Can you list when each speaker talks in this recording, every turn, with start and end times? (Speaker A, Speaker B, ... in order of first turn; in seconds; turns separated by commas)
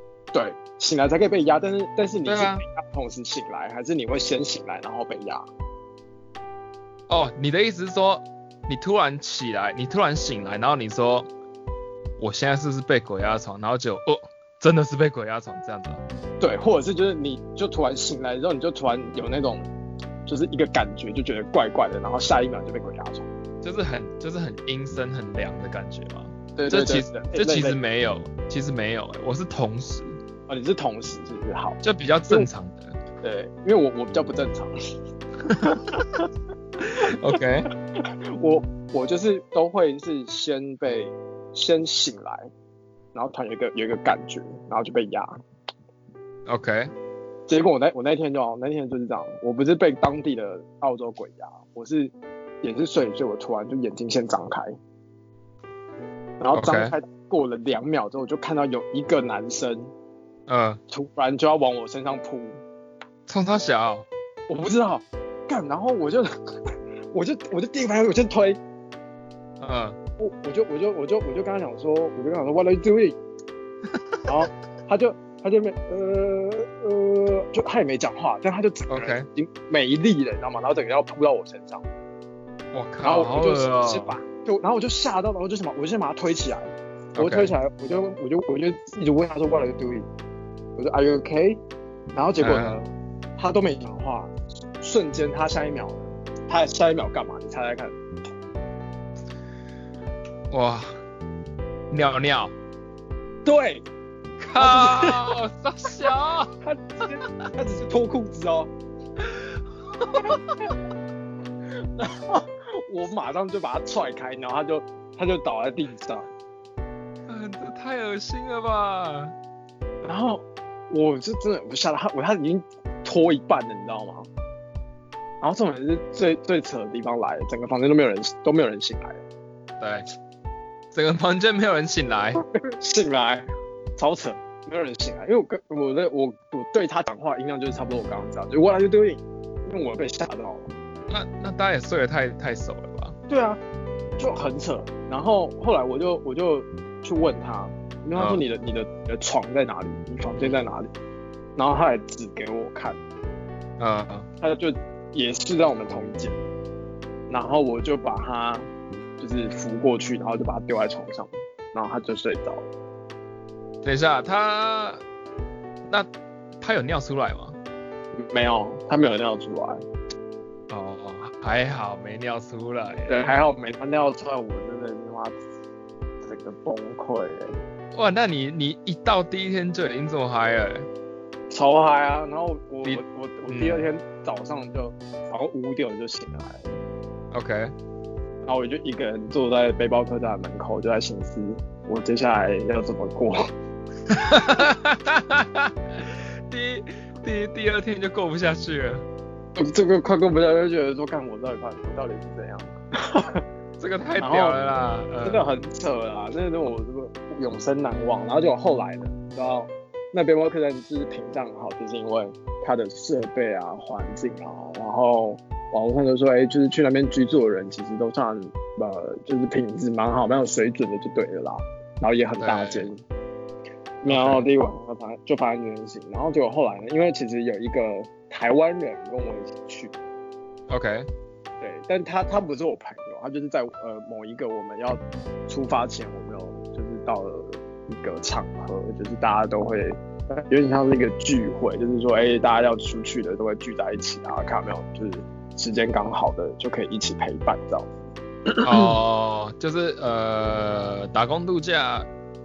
Speaker A: 0.3-5.5, Speaker B: 2.2-2.6, Speaker B: 7.1-11.3, Speaker B: 12.2-16.0, Speaker A: 16.4-19.7, Speaker A: 20.2-23.3, Speaker B: 23.6-30.2, Speaker A: 26.6-27.8, Speaker A: 30.5-32.5, Speaker B: 31.8-33.0, Speaker A: 33.2-34.8, Speaker B: 35.4-35.8, Speaker A: 35.6-36.2, Speaker B: 36.8-37.7, Speaker A: 38.0-42.5, Speaker A: 43.1-45.4, Speaker B: 46.5-46.9, Speaker A: 47.5-54.8, Speaker A: 56.4-59.9, Speaker B: 56.5-56.9, Speaker B: 60.5-60.8, Speaker A: 60.9-62.6, Speaker B: 63.3-64.1, Speaker A: 64.5-68.6, Speaker B: 69.6-70.0, Speaker A: 70.2-73.2, Speaker A: 74.2-81.8, Speaker B: 78.9-79.3, Speaker B: 82.7-84.2, Speaker A: 83.0-90.1, Speaker B: 87.1-87.5, Speaker A: 90.8-91.6, Speaker A: 92.1-98.0, Speaker B: 92.4-92.8, Speaker B: 100.5-100.9, Speaker B: 101.9-102.5, Speaker A: 103.4-103.8, Speaker B: 104.4-106.5, Speaker A: 104.6-105.3, Speaker A: 106.6-108.7, Speaker B: 109.2-110.6, Speaker A: 111.8-116.3, Speaker B: 117.3-119.3, Speaker A: 120.0-124.3, Speaker A: 125.4-129.2, Speaker B: 129.8-130.1, Speaker B: 130.9-132.4, Speaker A: 132.4-140.8, Speaker B: 141.1-143.2, Speaker A: 143.3-143.6, Speaker A: 144.2-150.9, Speaker B: 148.1-148.4, Speaker A: 151.6-153.0, Speaker B: 153.8-154.2, Speaker A: 154.4-156.4, Speaker A: 157.3-158.7, Speaker A: 159.2-162.7, Speaker B: 163.8-165.0, Speaker B: 166.6-167.6, Speaker A: 168.1-169.8, Speaker B: 170.7-173.3, Speaker A: 173.1-175.4, Speaker A: 176.2-177.6, Speaker B: 177.9-180.9, Speaker A: 181.5-186.8, Speaker B: 182.8-183.8, Speaker B: 187.3-187.7, Speaker A: 188.4-193.4, Speaker B: 194.1-199.0, Speaker A: 199.6-203.4, Speaker B: 203.8-205.4, Speaker A: 204.2-204.6, Speaker A: 205.2-223.0, Speaker B: 222.4-222.9, Speaker A: 224.0-229.9, Speaker B: 224.1-224.4, Speaker B: 230.7-231.1, Speaker A: 231.6-248.9, Speaker B: 248.6-252.1